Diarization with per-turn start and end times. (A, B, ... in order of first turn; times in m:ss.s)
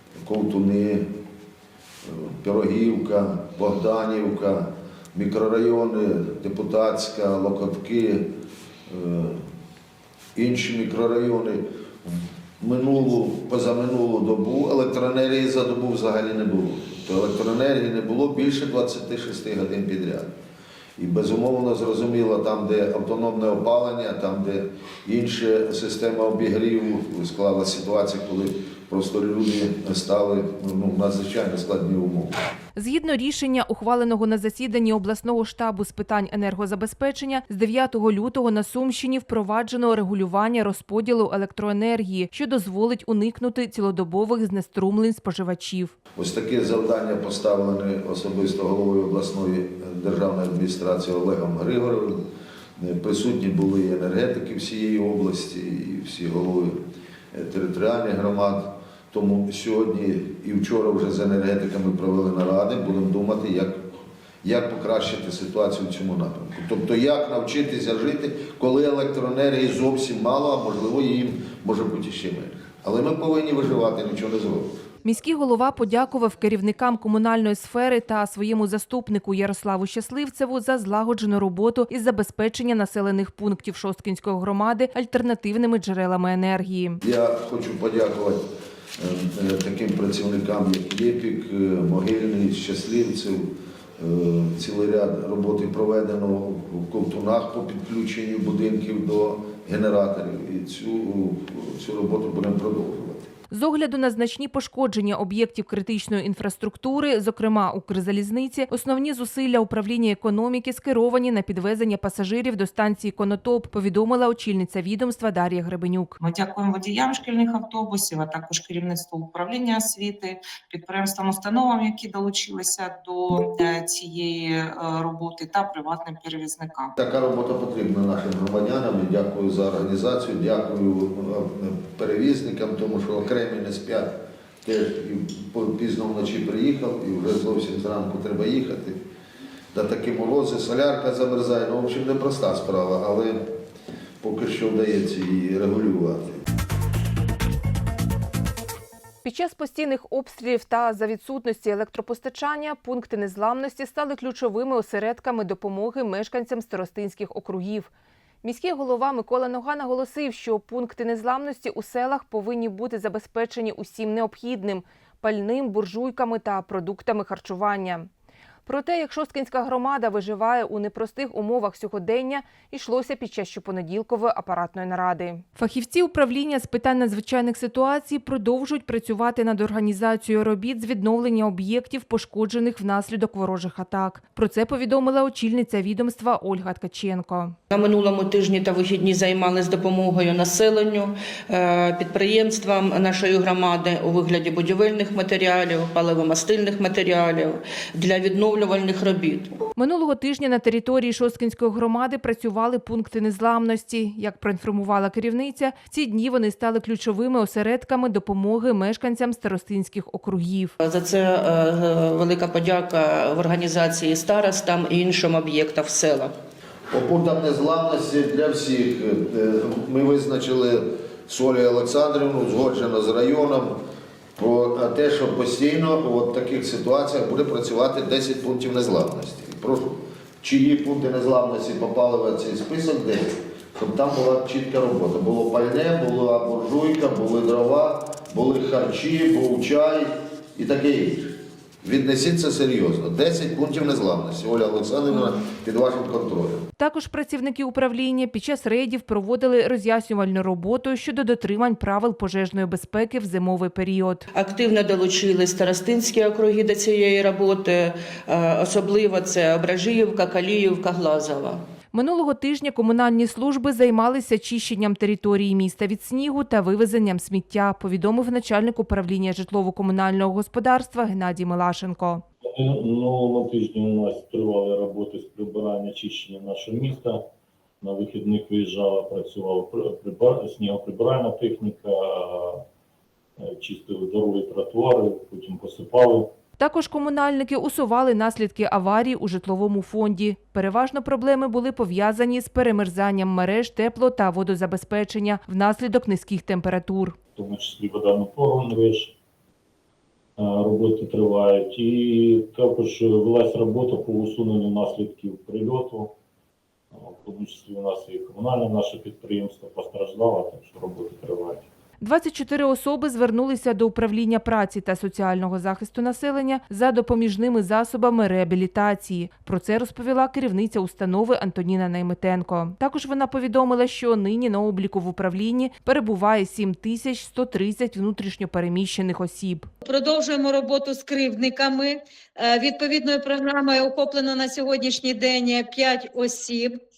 0:00.2-0:01.1 A
0:02.1-0:08.3 A
0:08.9-0:09.4 A
0:10.4-0:20.3 A
0:21.0-0:32.4 A
0:32.8-0:45.9 B
0:46.2-0:52.2 A
0:52.8-0:56.8 A
0:57.3-1:03.8 A
1:04.4-1:14.7 A
1:15.0-1:27.0 B
1:27.0-1:28.4 A
1:29.0-1:43.3 A
1:43.5-1:56.2 B
1:56.2-2:06.9 C
2:07.0-2:14.1 A
2:14.6-2:19.0 A
2:19.7-2:23.4 A
2:24.2-2:26.4 A
2:29.2-2:37.9 B
2:38.4-2:48.1 B
2:48.7-3:07.6 B
3:07.7-3:19.5 D
3:19.8-3:30.7 B
3:30.8-3:36.4 D
3:36.9-3:43.8 A
3:44.4-4:06.7 A
4:06.8-4:14.2 B
4:14.3-4:21.6 D
4:21.9-4:32.2 B
4:32.5-4:37.2 E
4:37.8-4:42.6 E
4:43.4-4:46.3 E
4:46.6-4:57.2 B
4:57.4-4:59.1 E
5:00.4-5:06.1 E
5:06.9-5:11.7 E
5:12.0-5:29.7 B
5:29.8-5:36.8 F